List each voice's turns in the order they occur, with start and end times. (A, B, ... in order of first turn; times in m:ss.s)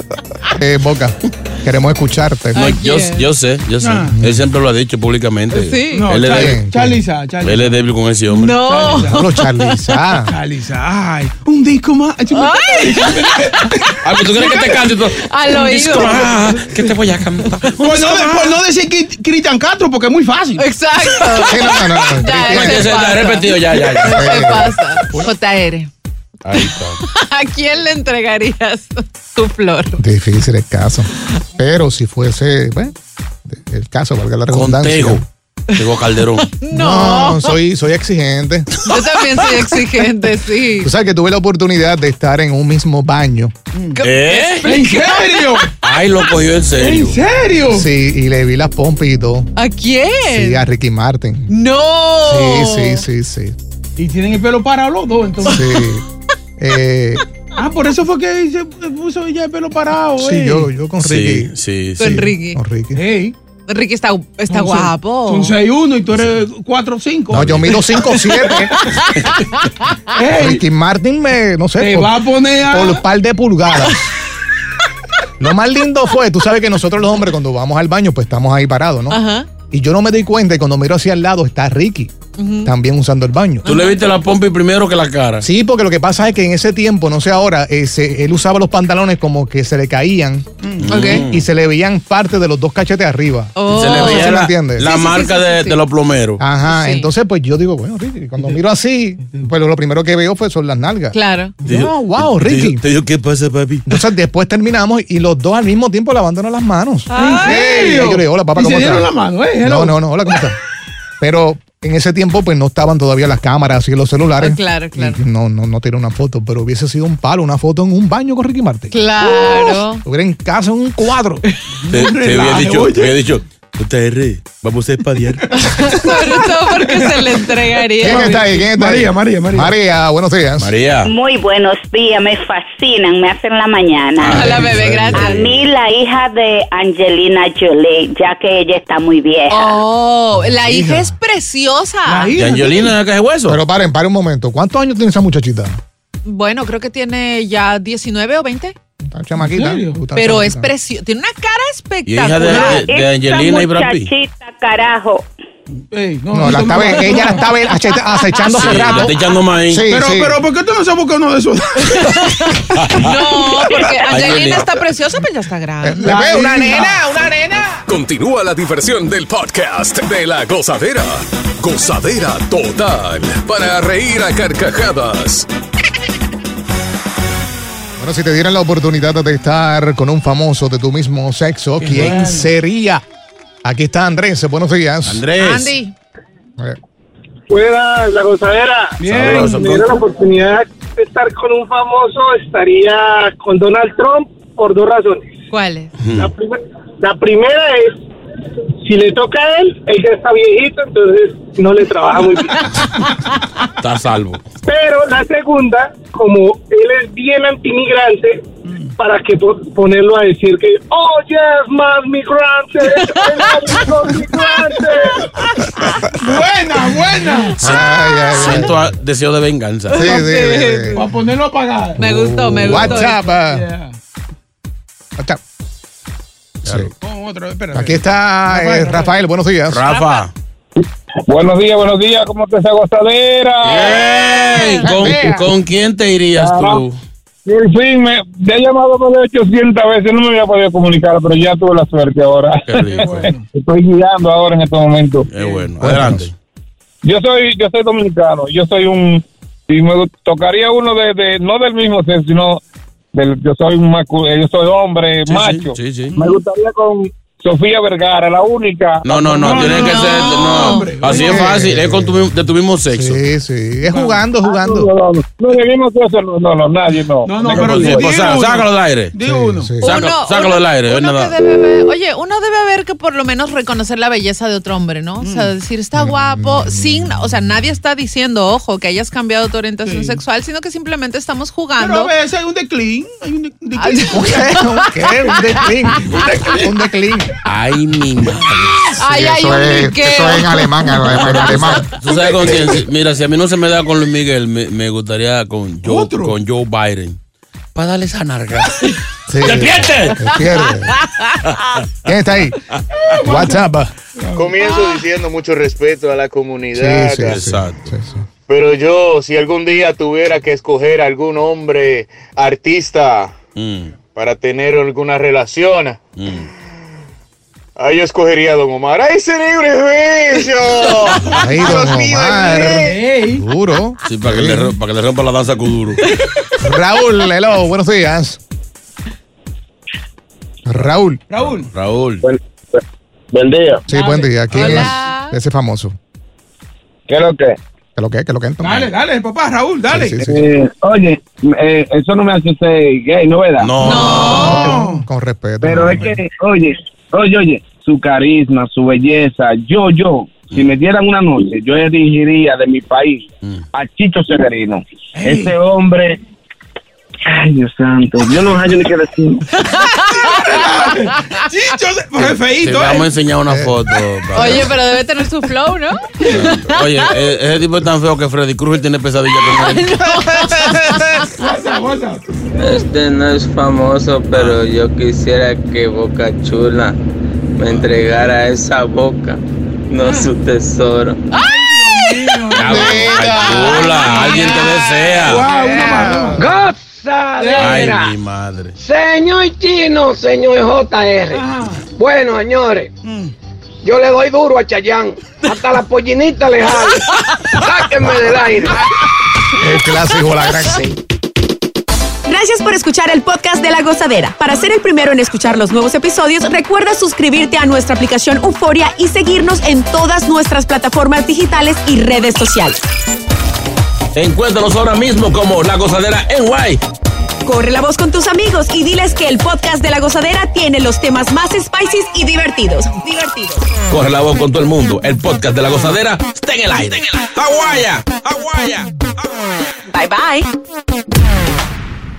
0:00.5-0:02.6 A
0:02.5-0:03.3 B
0:02.5-0:06.6 C
0:03.8-0:04.2 D
0:04.1-0:04.4 A
0:05.5-0:06.2 B
0:05.9-0:07.8 D
0:06.2-0:07.0 A
0:07.4-0:08.6 C
0:08.3-0:09.8 B
0:08.5-0:09.3 D
0:09.0-0:10.4 A
0:10.2-0:14.6 D
0:12.3-0:16.4 B
0:14.0-0:18.6 C
0:15.5-0:17.2 D
0:17.4-0:18.0 B
0:17.8-0:21.4 D
0:20.6-0:25.9 B
0:21.4-0:23.1 A
0:22.4-0:24.4 C
0:24.0-0:24.8 A
0:26.4-0:27.0 C
0:26.5-0:30.0 B
0:30.0-0:32.9 A
0:33.5-0:35.2 A
0:34.5-0:36.5 C
0:36.4-0:37.6 B
0:36.7-0:38.9 A
0:38.8-0:40.9 B
0:40.8-0:43.5 A
0:43.7-0:44.0 D
0:43.9-0:45.7 B
0:44.0-0:44.7 C
0:44.6-0:45.7 D
0:45.8-0:47.2 C
0:46.7-0:47.9 D
0:47.7-0:49.5 A
0:49.6-0:50.6 B
0:50.3-0:51.5 A
0:51.5-0:53.0 B
0:52.2-0:53.6 A
0:54.0-0:55.7 D
0:55.4-0:55.8 B
0:55.4-0:56.0 A
0:56.6-0:57.2 A
0:57.6-1:00.7 D
1:00.2-1:03.1 A
1:01.0-1:02.0 C
1:02.0-1:02.6 B
1:02.9-1:03.4 D
1:03.7-1:05.6 B
1:04.5-1:08.0 D
1:07.3-1:09.0 A
1:07.4-1:07.6 C
1:07.9-1:10.0 B
1:10.1-1:10.6 D
1:10.3-1:14.0 A
1:11.8-1:13.0 D
1:15.4-1:22.1 A
1:19.1-1:19.5 B
1:22.4-1:22.7 B
1:22.6-1:23.7 A
1:23.6-1:24.0 B
1:23.6-1:25.5 C
1:25.4-1:30.4 A
1:30.6-1:31.1 D
1:30.8-1:31.4 C
1:30.9-1:31.3 B
1:31.2-1:34.9 A
1:33.5-1:35.8 B
1:33.7-1:36.4 C
1:36.4-1:42.8 A
1:36.6-1:37.1 B
1:39.2-1:39.5 D
1:41.1-1:41.5 B
1:41.6-1:43.8 C
1:43.9-1:50.6 A
1:47.1-1:47.8 B
1:47.1-1:50.0 D
1:51.2-1:58.9 A
1:54.4-1:55.2 B
1:58.9-2:00.0 B
1:59.2-1:59.8 D
2:00.0-2:01.4 A
2:01.8-2:03.2 D
2:01.9-2:05.5 C
2:05.5-2:08.4 B
2:05.6-2:09.8 D
2:08.0-2:10.7 A
2:10.6-2:11.1 C
2:11.0-2:14.5 E
2:14.2-2:15.6 C
2:14.3-2:15.5 B
2:14.3-2:15.3 A
2:15.2-2:19.8 E
2:19.5-2:22.3 B
2:20.3-2:21.2 A
2:22.0-2:23.0 D
2:22.3-2:23.6 C
2:23.5-2:25.8 A
2:26.2-2:28.7 B
2:29.1-2:30.7 A
2:29.4-2:30.1 D
2:30.1-2:32.9 B
2:32.0-2:34.1 C
2:32.5-2:32.8 D
2:32.7-2:35.3 E
2:35.9-2:37.5 D
2:36.3-2:39.1 A
2:38.3-2:39.1 B
2:38.5-2:39.8 C
2:39.7-2:40.4 A
2:39.9-2:42.3 D
2:41.8-2:46.2 B
2:42.7-2:43.2 C
2:44.0-2:44.8 C
2:45.8-2:47.8 A
2:46.0-2:47.2 D
2:47.9-2:55.5 F
2:58.0-3:03.0 A
3:01.8-3:02.5 D
3:03.6-3:05.3 A
3:05.0-3:05.7 C
3:05.4-3:05.9 B
3:07.5-3:15.3 G
3:09.0-3:09.7 D
3:09.0-3:10.0 C
3:15.5-3:15.9 B
3:16.0-3:16.3 C
3:16.1-3:18.0 G
3:18.8-3:22.8 G
3:23.8-3:24.4 C
3:24.6-3:35.2 G
3:33.0-3:34.3 B
3:36.2-3:37.6 D
3:37.6-3:40.1 C
3:37.6-3:38.8 A
3:39.9-3:41.1 B
3:39.9-3:41.0 A
3:40.9-3:42.1 D
3:42.0-3:43.6 A
3:42.0-3:43.4 B
3:42.6-3:44.0 D
3:46.6-3:46.9 C
3:46.6-3:46.9 A
3:47.0-3:49.2 D
3:47.7-3:49.8 A
3:49.7-3:50.3 C
3:49.8-3:50.2 B
3:50.8-3:54.1 H
3:53.6-3:57.0 C
3:53.9-3:54.9 B
3:54.8-3:55.5 A
3:55.0-3:55.4 H
3:56.4-3:56.8 H
3:57.4-4:05.3 H
4:02.6-4:03.3 C
4:03.0-4:03.4 D
4:05.3-4:06.3 C
4:05.3-4:05.7 D
4:05.8-4:06.3 A
4:07.0-4:12.6 H
4:13.1-4:19.1 H
4:15.3-4:16.2 C
4:19.0-4:23.2 C
4:19.1-4:21.5 D
4:19.5-4:21.0 B
4:21.1-4:22.3 A
4:22.9-4:24.9 A
4:23.8-4:24.2 D
4:24.4-4:28.1 H
4:27.2-4:29.8 D
4:27.4-4:29.1 C
4:29.2-4:29.8 A
4:29.8-4:31.3 C
4:29.8-4:42.1 B
4:35.2-4:35.5 D
4:36.0-4:37.1 A
4:39.8-4:40.2 D
4:41.8-4:44.4 D
4:43.8-4:45.7 B
4:44.1-4:47.3 A
4:46.0-4:46.7 D
4:47.4-4:49.0 C
4:49.0-4:52.0 B
4:49.0-4:51.9 A
4:51.1-4:57.2 C
4:55.8-4:56.4 D
4:57.7-5:00.2 C
4:59.3-5:01.0 A
5:01.4-5:01.8 C
5:02.0-5:02.6 A
5:02.9-5:04.5 D
5:03.2-5:03.9 A
5:04.4-5:07.4 I
5:04.7-5:05.0 B
5:06.7-5:08.2 A
5:07.2-5:07.9 C
5:08.5-5:13.4 I
5:13.6-5:13.9 C
5:14.1-5:16.0 I
5:16.2-5:16.5 C
5:17.8-5:23.0 I
5:21.3-5:24.7 A
5:22.7-5:23.5 D
5:24.0-5:26.1 C
5:26.6-5:28.4 A
5:30.6-5:31.2 A
5:31.3-5:31.7 D
5:31.7-5:32.2 C
5:32.2-5:33.8 H
5:33.9-5:35.9 A
5:33.9-5:35.4 B
5:37.1-5:37.6 H
5:38.0-5:38.9 A
5:38.6-5:40.2 D
5:38.6-5:38.9 C
5:39.9-5:40.4 A
5:40.2-5:43.8 H
5:43.6-5:44.6 C
5:43.8-5:44.8 B
5:43.9-5:45.0 D
5:44.2-5:46.2 A
5:45.6-5:56.2 H
5:55.2-5:55.5 D
5:57.3-5:59.4 H
5:59.5-6:01.4 B
5:59.9-6:03.1 D
6:02.2-6:04.7 C
6:03.5-6:03.7 A
6:04.3-6:04.6 A
6:04.3-6:07.1 B
6:06.2-6:10.1 C
6:09.4-6:11.3 B
6:11.3-6:12.2 D
6:12.6-6:17.0 J
6:14.3-6:14.6 C
6:17.6-6:21.2 J
6:20.0-6:20.3 D
6:21.3-6:22.6 B
6:21.4-6:26.6 D
6:22.5-6:25.5 C
6:22.6-6:24.0 A
6:23.9-6:26.2 B
6:26.4-6:28.1 K
6:27.4-6:27.9 D
6:27.5-6:28.8 C
6:28.8-6:32.9 K
6:31.3-6:31.8 D
6:33.0-6:33.3 D
6:33.8-6:38.8 K
6:39.5-6:41.0 A
6:42.3-6:52.8 L
6:54.1-6:56.8 C
6:57.4-7:03.7 L
7:03.9-7:08.9 C
7:09.9-7:10.5 L